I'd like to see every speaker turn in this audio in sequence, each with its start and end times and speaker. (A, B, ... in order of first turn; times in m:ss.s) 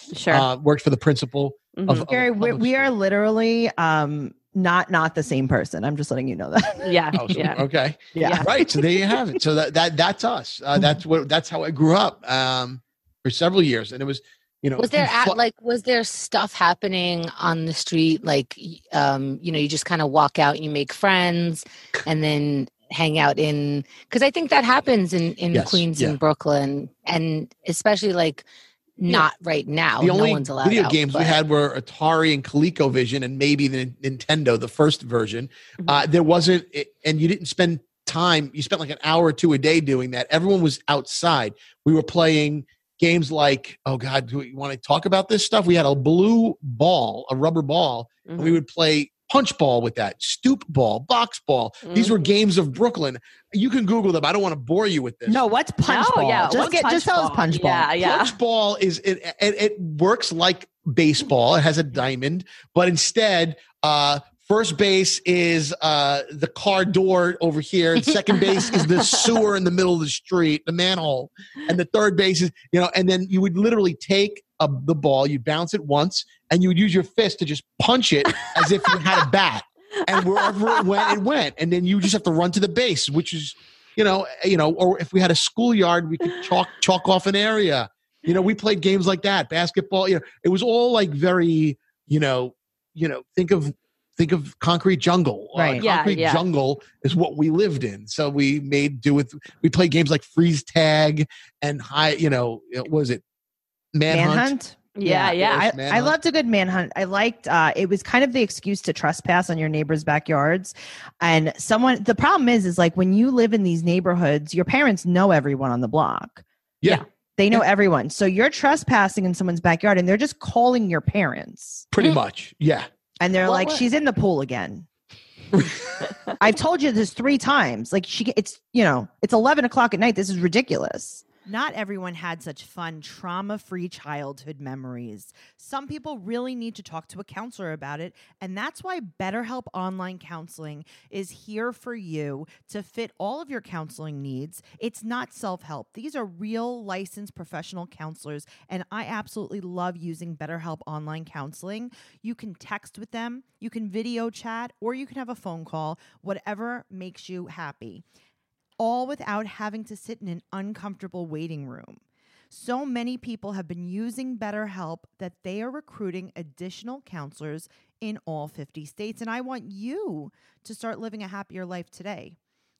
0:00.1-0:00.4 A
0:00.3-0:02.9 B
0:01.8-0:02.1 A
0:02.1-0:07.0 C
0:06.8-0:07.6 A
0:07.1-0:15.4 B
0:08.1-0:08.5 C
0:08.2-0:08.5 A
0:14.8-0:28.4 D
0:25.5-0:26.2 B
0:29.0-0:31.4 D
0:30.0-0:55.4 B
0:48.2-0:48.6 A
0:51.8-0:52.1 A
0:55.3-0:57.9 C
0:55.8-0:58.3 A
0:58.0-1:43.2 B
1:18.4-1:19.0 A
1:20.2-1:21.1 A
1:35.5-1:35.8 C
1:35.8-1:36.4 A
1:43.9-1:44.5 B
1:44.1-1:56.4 C
1:45.0-1:45.6 A
1:45.4-1:46.2 B
1:57.4-2:01.9 C
2:01.9-2:02.8 B
2:03.2-2:04.9 C
2:03.4-2:03.8 D
2:06.4-2:38.0 C
2:38.8-2:52.4 C